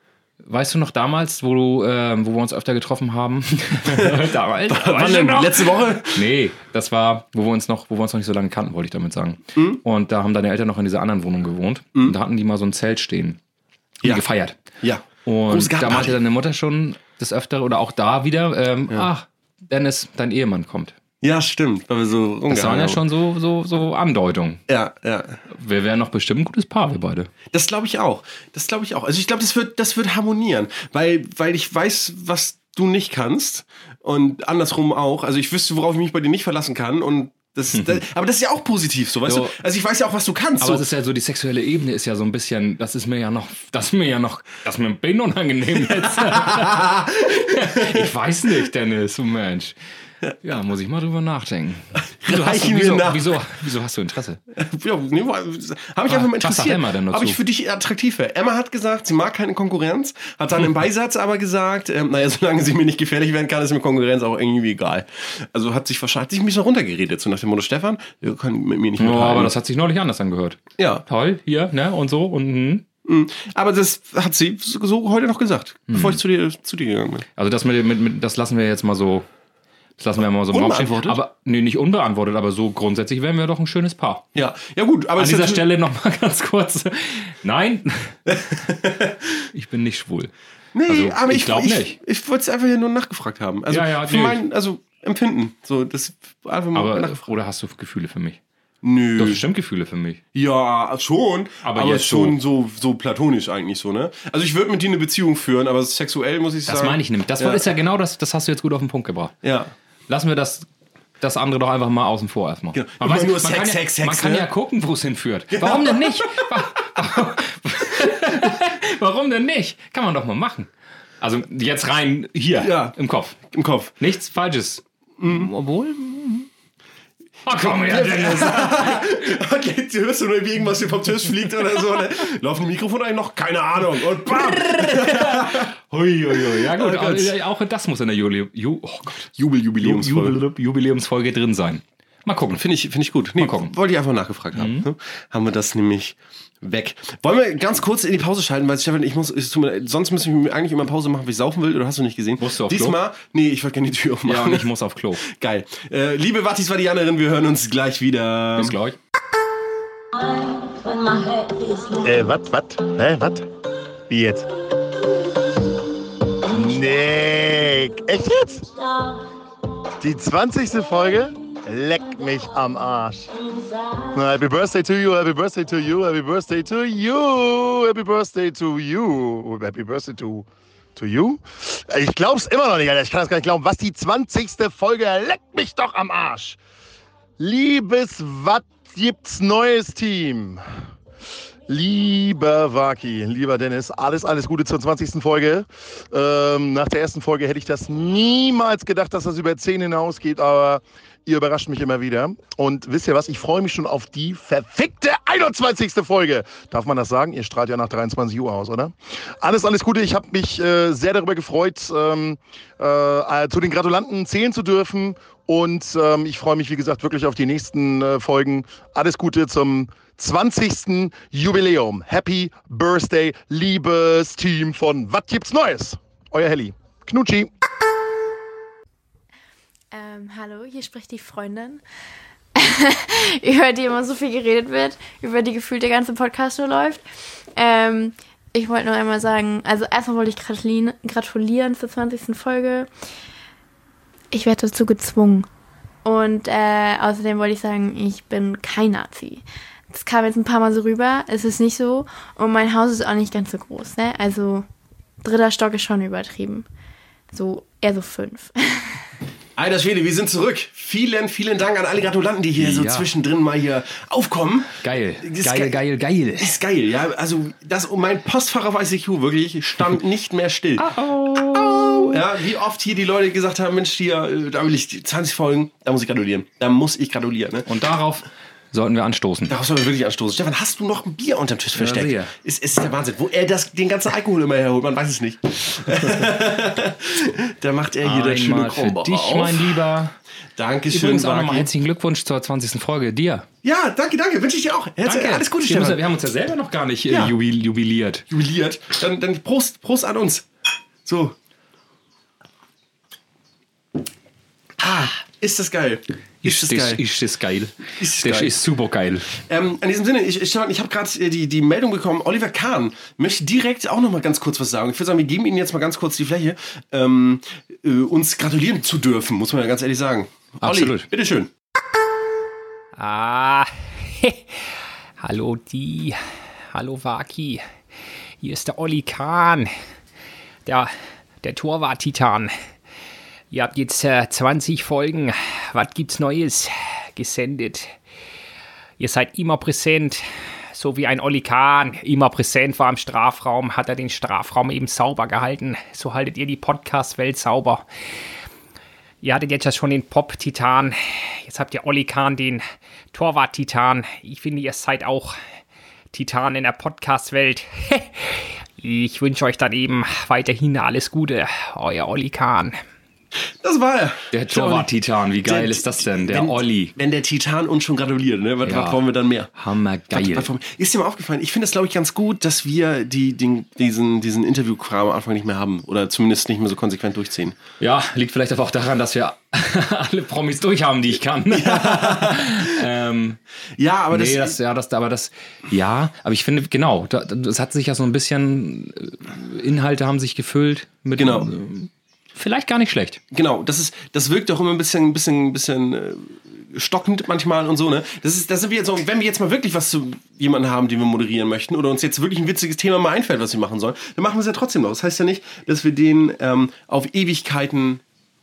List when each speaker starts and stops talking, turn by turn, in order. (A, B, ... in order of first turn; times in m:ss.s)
0:00.4-0:13.4 A
0:03.9-0:06.2 B
0:09.6-0:09.8 B
0:14.0-0:14.6 A
0:14.8-0:16.2 B
0:15.2-0:20.9 A
0:21.2-0:23.0 B
0:22.5-0:24.6 A
0:24.7-0:25.4 B
0:25.5-0:27.3 A
0:27.5-0:40.8 B
0:37.7-0:38.0 A
0:39.3-0:39.6 A
0:40.6-0:49.8 A
0:46.0-0:48.1 B
0:50.4-0:54.4 A
0:52.2-0:53.4 B
0:54.5-1:09.5 B
0:56.1-0:57.4 A
1:09.0-1:12.8 A
1:10.8-1:11.0 B
1:13.1-1:17.3 B
1:15.9-1:16.2 A
1:17.4-1:19.2 A
1:20.0-1:24.3 A
1:20.5-1:21.2 B
1:24.4-1:25.6 B
1:25.2-1:28.3 A
1:28.3-1:29.2 B
1:29.5-1:30.3 A
1:30.8-1:37.3 B
1:30.9-1:32.0 A
1:33.7-1:34.4 A
1:36.8-1:38.4 A
1:38.8-1:39.4 B
1:39.2-1:40.2 A
1:40.4-1:47.6 B
1:41.6-1:42.4 A
1:46.7-1:49.4 A
1:49.4-1:49.7 B
1:50.1-1:50.7 A
1:51.2-2:00.7 A
1:52.7-1:54.5 B
1:55.5-1:56.5 B
2:01.2-2:06.5 A
2:02.6-2:03.0 B
2:03.5-2:03.9 B
2:05.2-2:05.5 B
2:07.5-2:09.2 A
2:07.5-2:15.7 B
2:14.3-2:22.6 A
2:16.3-2:17.3 B
2:19.4-2:20.4 B
2:22.6-2:34.7 B
2:23.4-2:23.7 A
2:24.5-2:24.9 A
2:32.4-2:33.0 A
2:34.3-2:35.2 A
2:35.2-2:38.8 B
2:38.6-2:39.0 A
2:41.8-2:43.4 C
2:44.1-2:44.5 C
2:46.5-2:48.7 C
2:50.0-2:53.3 C
2:54.1-3:06.6 C
3:07.4-3:10.6 C
3:11.7-3:47.5 C
3:49.9-3:51.8 D
3:52.6-3:57.0 D
3:57.6-4:02.9 D
4:04.3-4:05.5 D
4:06.0-4:14.6 D
4:15.2-4:16.6 D
4:17.3-4:19.0 D
4:19.6-4:25.8 B
4:22.6-4:23.1 A
4:24.8-4:26.5 A
4:26.4-4:30.9 B
4:30.8-4:32.2 A
4:31.5-4:37.7 B
4:37.7-4:39.5 A
4:39.5-4:49.8 B
4:41.8-4:42.3 A
4:48.0-4:50.2 A
4:50.6-4:51.7 B
4:50.9-4:53.5 A
4:53.6-4:56.0 B
4:55.0-4:58.3 A
4:57.1-4:57.3 B
4:58.3-5:00.5 B
5:01.0-5:01.4 B
5:04.8-5:07.0 B
5:06.4-5:09.4 A
5:07.9-5:08.6 B
5:09.5-5:21.5 B
5:20.6-5:21.1 A
5:23.0-5:24.6 E
5:25.2-5:26.2 E
5:26.7-5:27.6 E
5:28.4-5:29.7 E
5:30.7-5:30.9 E
5:31.4-5:32.6 E
5:33.5-5:37.9 E
5:39.0-5:47.9 E
5:49.2-5:55.4 E
5:56.1-6:02.8 E
6:03.6-6:04.9 B
6:04.3-6:07.0 A
6:05.4-6:09.5 B
6:08.6-6:09.0 A
6:09.5-6:10.5 A
6:10.1-6:17.6 B
6:17.8-6:23.4 A
6:21.5-6:22.8 B
6:23.8-6:24.6 B
6:24.1-6:33.2 A
6:31.2-6:31.5 B
6:33.3-6:48.0 B